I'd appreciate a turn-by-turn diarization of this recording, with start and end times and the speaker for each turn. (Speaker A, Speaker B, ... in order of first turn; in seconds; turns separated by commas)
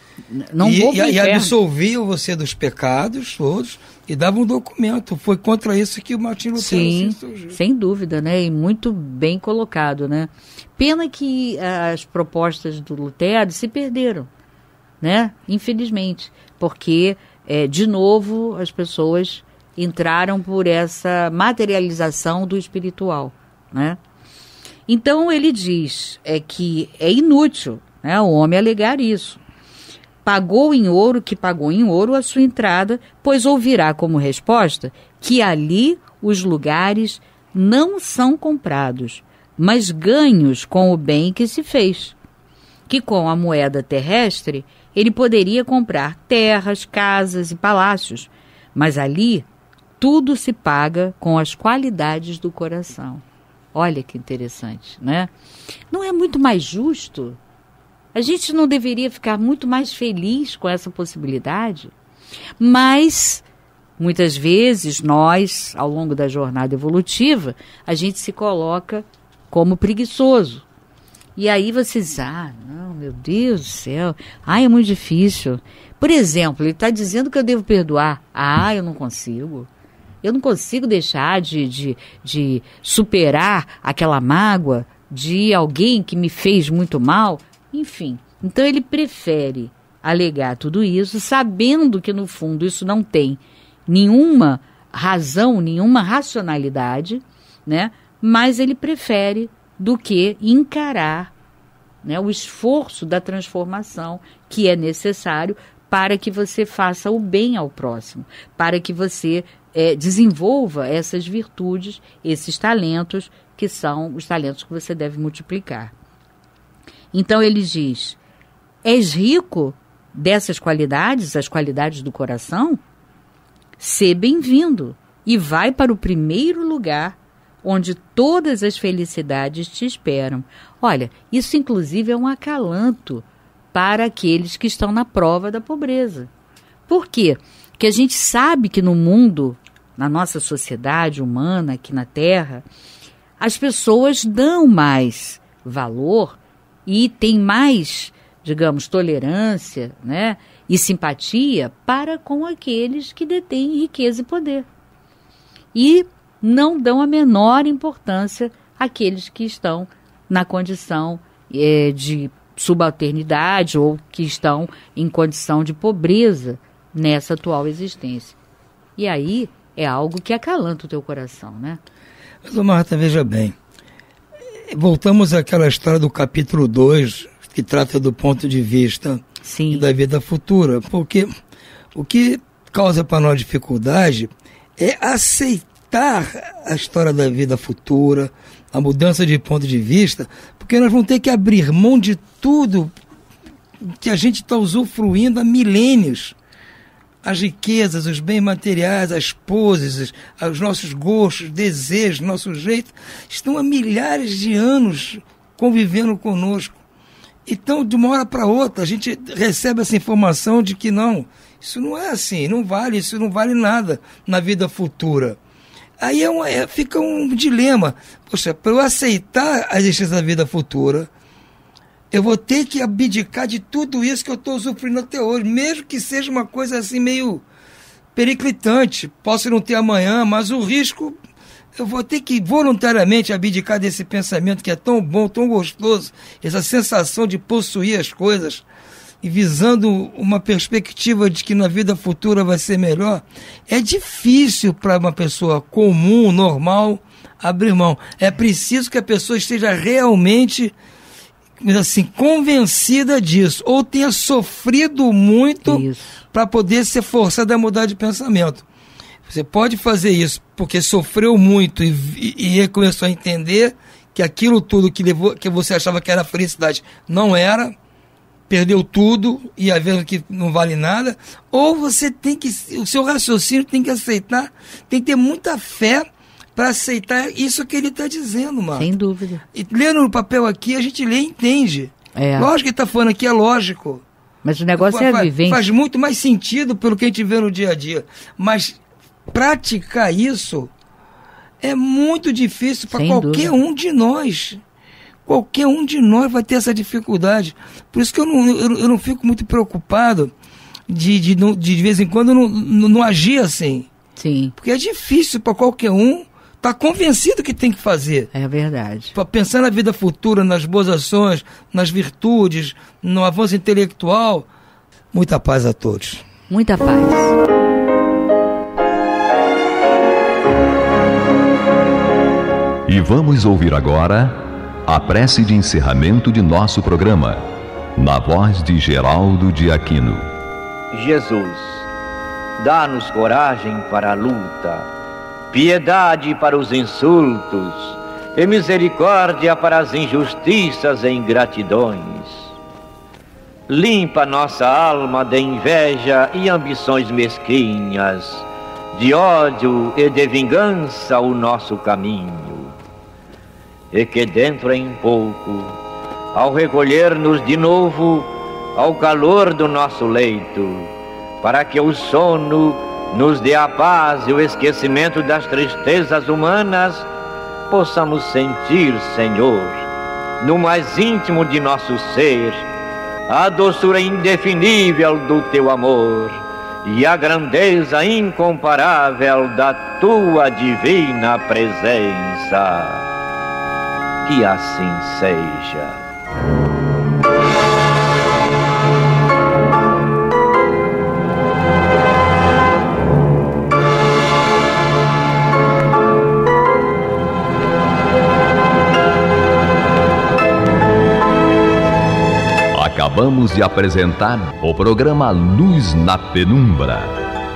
Speaker A: 0.3-1.5, Speaker B: 0.6-7.6, Speaker A: 6.5-14.3, Speaker A: 15.0-24.0, Speaker A: 24.9-29.4, Speaker A: 30.2-42.1, Speaker A: 42.9-49.5, Speaker A: 50.0-53.2, Speaker A: 53.7-55.3, Speaker A: 55.9-57.4, Speaker A: 58.1-61.9, Speaker A: 62.6-63.4, Speaker A: 64.0-70.7, Speaker A: 71.4-79.7, Speaker A: 80.2-101.3, Speaker A: 102.0-115.9, Speaker A: 117.1-118.2, Speaker A: 118.8-122.8, Speaker A: 123.8-136.3, Speaker A: 136.9-142.6, Speaker A: 143.4-154.7, Speaker A: 155.7-168.4, Speaker A: 169.0-171.8, Speaker B: 172.4-173.5, Speaker B: 174.7-181.3, Speaker A: 179.4-179.9, Speaker B: 181.9-192.9, Speaker B: 193.9-196.3, Speaker B: 197.2-206.8, Speaker B: 207.4-215.4, Speaker B: 216.0-221.1, Speaker B: 222.1-227.4, Speaker B: 228.1-231.2, Speaker B: 231.7-238.6, Speaker B: 239.2-250.7, Speaker B: 251.6-258.6, Speaker A: 255.6-256.2, Speaker B: 259.3-267.8, Speaker B: 268.5-278.9, Speaker A: 278.7-279.4, Speaker B: 279.5-284.0, Speaker A: 282.1-282.5, Speaker A: 284.4-285.6, Speaker B: 284.8-288.8, Speaker B: 289.3-290.7, Speaker B: 291.6-294.6, Speaker A: 292.9-293.5, Speaker B: 295.2-300.3, Speaker B: 300.9-303.9, Speaker A: 304.2-304.5, Speaker B: 304.6-308.3, Speaker A: 308.3-309.1, Speaker B: 309.1-314.5, Speaker B: 315.1-316.2, Speaker A: 316.5-317.4, Speaker C: 322.9-327.4, Speaker C: 328.0-330.2, Speaker D: 330.9-331.9, Speaker D: 332.6-334.9, Speaker D: 335.5-342.5, Speaker D: 343.7-352.7, Speaker D: 353.9-355.7, Speaker D: 356.3-360.9, Speaker D: 361.4-367.1, Speaker D: 367.7-369.9, Speaker D: 370.4-372.7, Speaker D: 373.3-383.0, Speaker D: 384.2-386.0, Speaker C: 402.7-407.2